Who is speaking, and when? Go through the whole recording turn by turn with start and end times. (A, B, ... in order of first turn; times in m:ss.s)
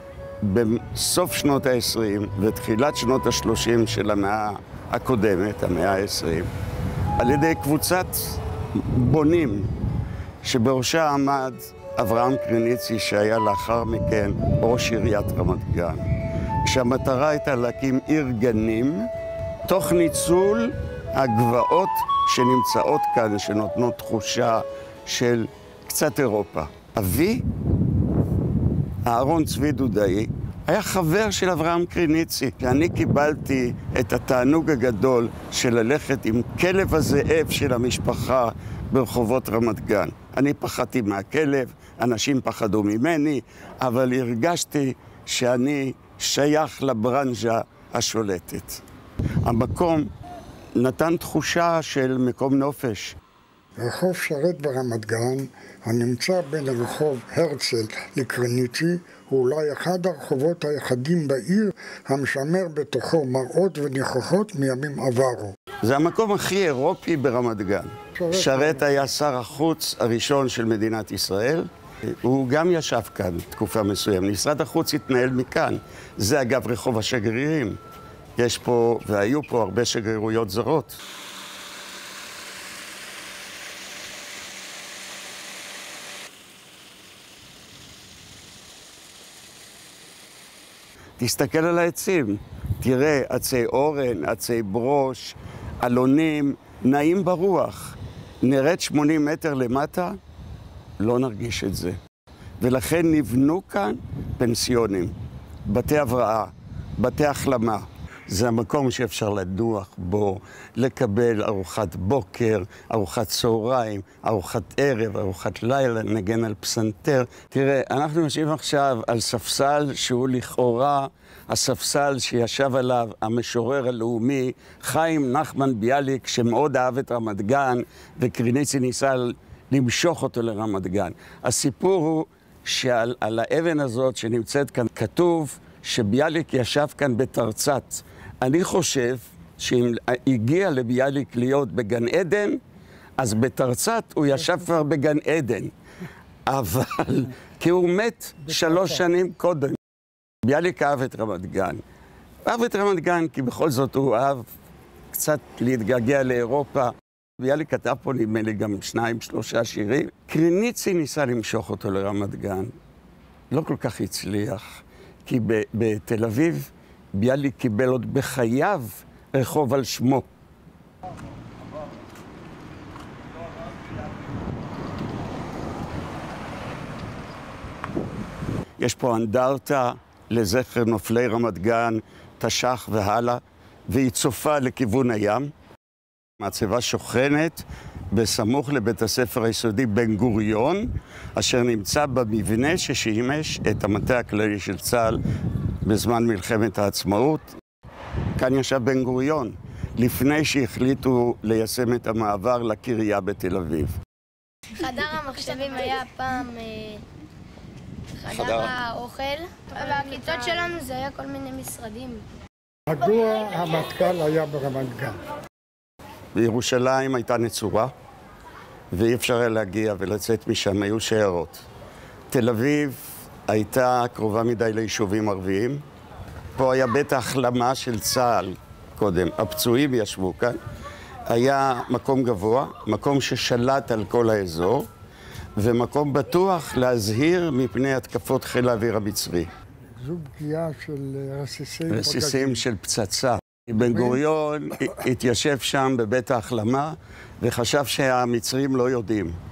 0:00.4-0:06.5 A
0:07.2-0:09.7 A
0:10.4-0:16.1 A
0:16.6-0:19.1 A
0:19.6-0:27.4 A
0:29.0-0:48.8 A
0:49.4-0:50.1 A
0:50.8-0:53.2 A
0:53.8-1:05.5 B
1:05.8-1:11.7 A
1:08.2-1:09.0 B
1:12.2-1:17.8 A
1:18.4-1:21.0 A
1:31.2-1:40.2 A
1:41.0-1:42.0 A
1:42.6-1:45.1 A
1:45.6-2:22.6 A
2:23.2-2:25.7 A
2:26.5-2:29.8 A
2:30.4-2:31.8 A
2:32.4-2:34.5 A
2:35.1-2:42.7 A
2:43.5-2:50.3 A
2:58.8-3:05.5 A
3:06.4-3:15.2 A
3:15.8-3:17.5 A
3:18.4-3:23.9 A
3:24.7-3:27.0 C
3:28.2-3:32.2 C
3:28.3-3:28.7 A
3:32.9-3:35.2 B
3:36.3-3:37.9 A
3:38.9-3:41.6 A
3:42.3-3:45.8 A
3:46.6-3:50.6 A
3:51.2-3:54.9 A
3:55.6-3:59.5 A
4:00.0-4:02.6 B
4:01.9-4:09.4 A